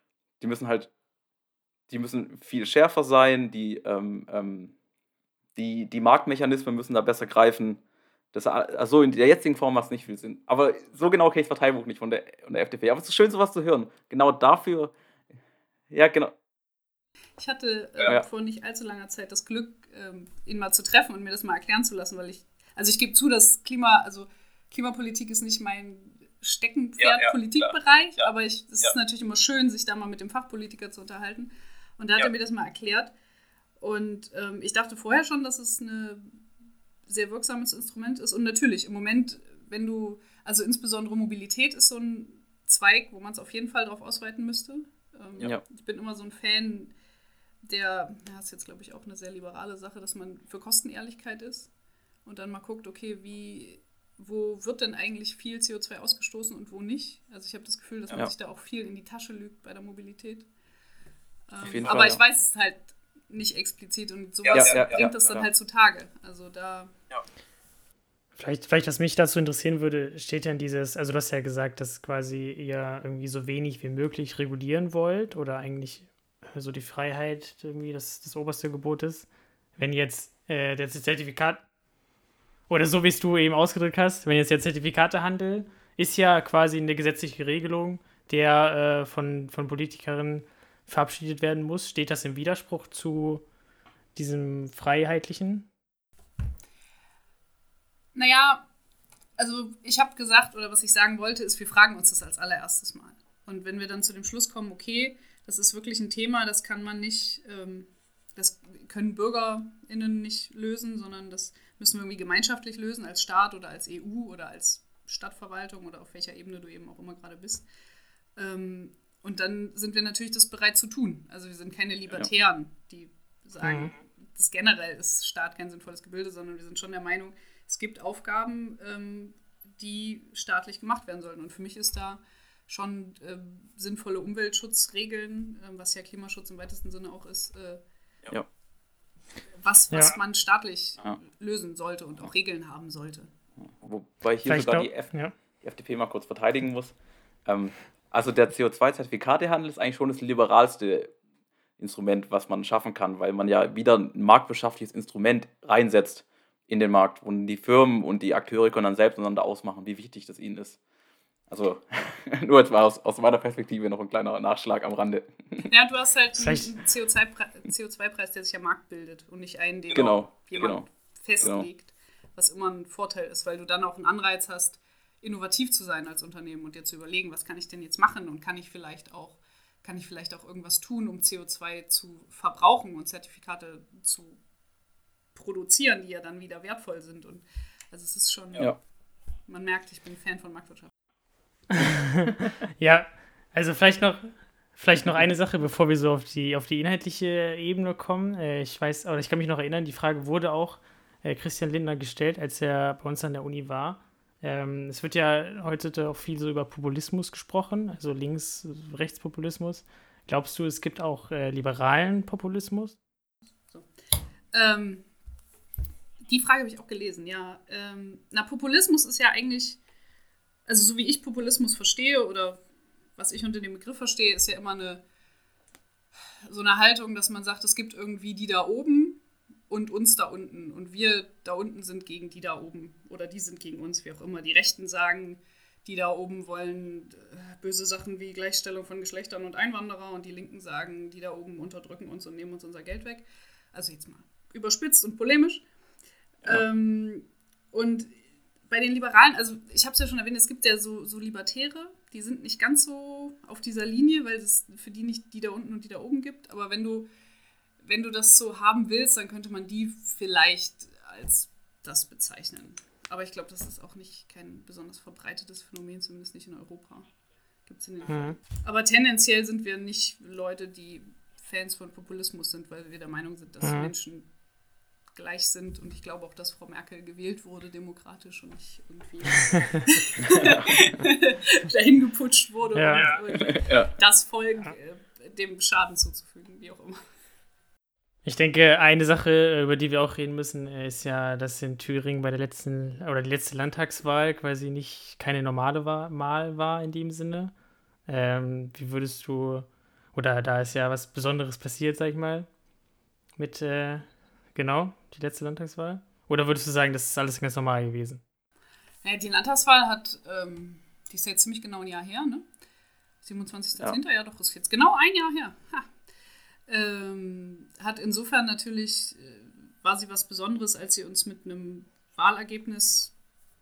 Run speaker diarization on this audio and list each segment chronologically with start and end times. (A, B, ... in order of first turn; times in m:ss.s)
0:00.4-0:00.9 A
0:01.9-0:04.7 A
0:05.6-0:07.8 A
0:08.3-0:14.9 A
0:15.9-0:16.3 A
0:17.4-0:33.1 B
0:33.8-0:36.4 B
0:37.1-0:46.9 B
0:47.6-0:51.7 B
0:52.2-1:00.5 B
1:01.5-1:06.9 B
1:01.6-1:02.2 A
1:04.5-1:05.5 A
1:08.4-1:21.6 C
1:22.7-1:33.4 C
1:34.2-1:35.7 C
1:38.2-1:38.7 B
1:39.4-1:57.6 B
1:58.4-2:17.8 B
2:03.6-2:03.9 C
2:19.6-2:23.3 B
2:19.9-2:20.2 C
2:23.8-2:31.1 A
2:24.4-2:25.3 C
2:31.8-2:40.8 A
2:41.5-2:45.7 A
2:45.7-3:04.4 B
2:46.4-2:46.7 C
2:49.9-2:50.9 A
2:51.4-2:51.7 A
3:05.3-3:08.8 B
3:09.5-3:10.9 B
3:11.7-3:33.0 C
3:34.5-3:35.1 B
3:36.2-3:39.8 B
3:40.7-3:42.6 B
3:43.2-3:45.0 B
3:46.5-4:05.6 B
4:06.4-4:08.2 B
4:08.7-4:17.1 B
4:17.8-4:27.1 B
4:27.7-4:34.3 B
4:28.1-4:28.4 C
4:33.6-4:33.9 C
4:35.1-4:47.0 B
4:40.4-4:40.7 A
4:42.8-4:43.1 C
4:43.2-4:43.9 A
4:48.2-4:57.5 C
4:58.1-5:02.5 C
5:03.4-5:08.2 C
5:09.0-5:12.4 B
5:13.2-5:15.9 B
5:16.7-5:23.1 B